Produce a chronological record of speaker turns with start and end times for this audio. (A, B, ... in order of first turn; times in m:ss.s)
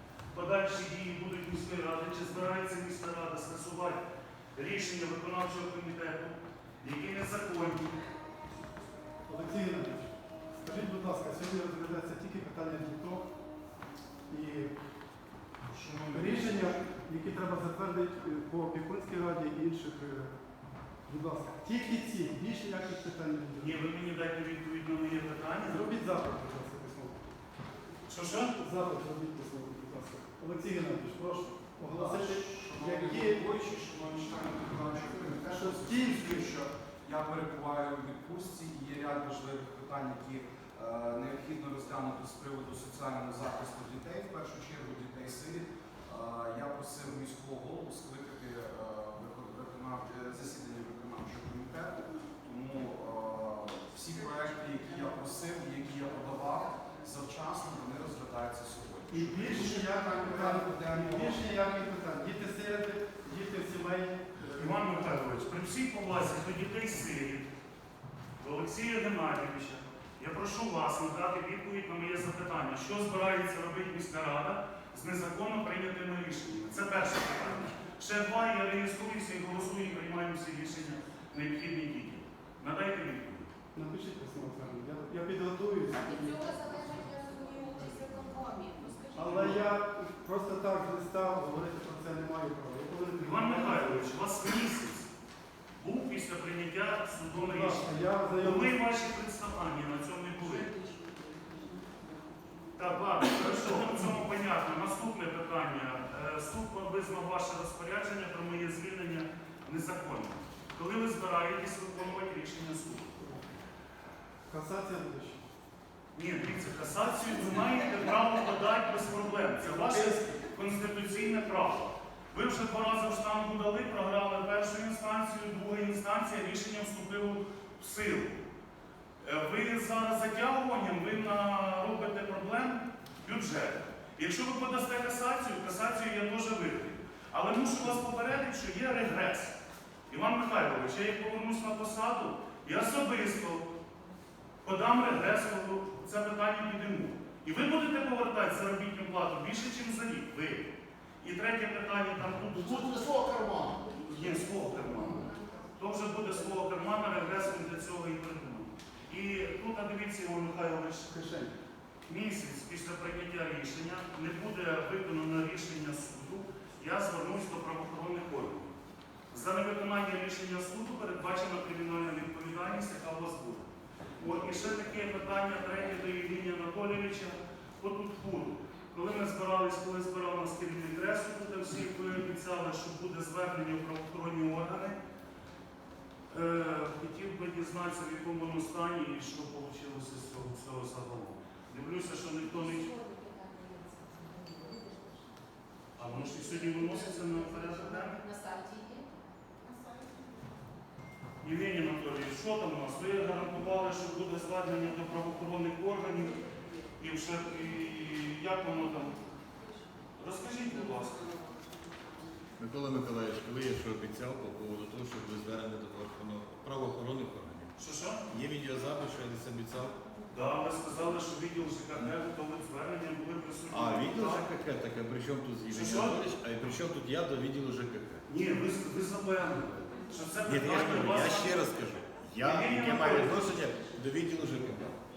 0:00.3-0:04.0 A
0:04.6-0:07.9 A
0:09.3-0:13.3 B
0:14.3-0:14.7 B
0:15.7-0:16.8 A
0:16.1-0:20.4 B
0:21.1-0:23.8 B
0:23.6-0:25.8 A
0:25.7-0:27.2 B
0:28.1-0:28.6 A
0:28.6-0:33.4 B
0:31.9-1:01.4 C
0:35.4-0:36.5 B
0:59.1-1:05.0 B
1:04.6-1:07.5 A
1:08.4-1:23.5 A
1:23.8-1:26.5 B
1:25.9-1:29.6 D
1:29.2-1:34.1 B
1:33.2-1:35.1 A
1:35.8-1:40.7 A
1:37.4-1:38.8 B
1:42.8-1:53.2 A
1:54.5-1:55.4 B
1:56.1-2:08.4 A
1:59.7-2:00.3 B
2:09.2-2:19.5 A
2:20.1-2:23.7 A
2:24.6-2:30.7 A
2:31.2-2:33.1 A
2:32.5-2:35.2 E
2:34.1-2:41.1 A
2:41.1-2:41.5 B
2:42.1-2:48.8 A
2:49.3-2:53.7 A
2:54.2-3:05.0 A
3:06.3-3:12.9 A
3:12.6-3:14.9 D
3:16.0-3:18.2 A
3:16.6-3:19.1 D
3:21.4-3:26.4 A
3:27.0-3:29.2 A
3:30.2-3:31.4 A
3:32.6-3:37.7 F
3:37.8-3:38.2 A
3:38.3-3:40.0 F
3:40.3-3:44.4 A
3:43.7-3:48.2 F
3:45.7-3:46.3 A
3:48.3-3:51.8 A
3:50.4-3:55.0 F
3:52.4-3:53.6 A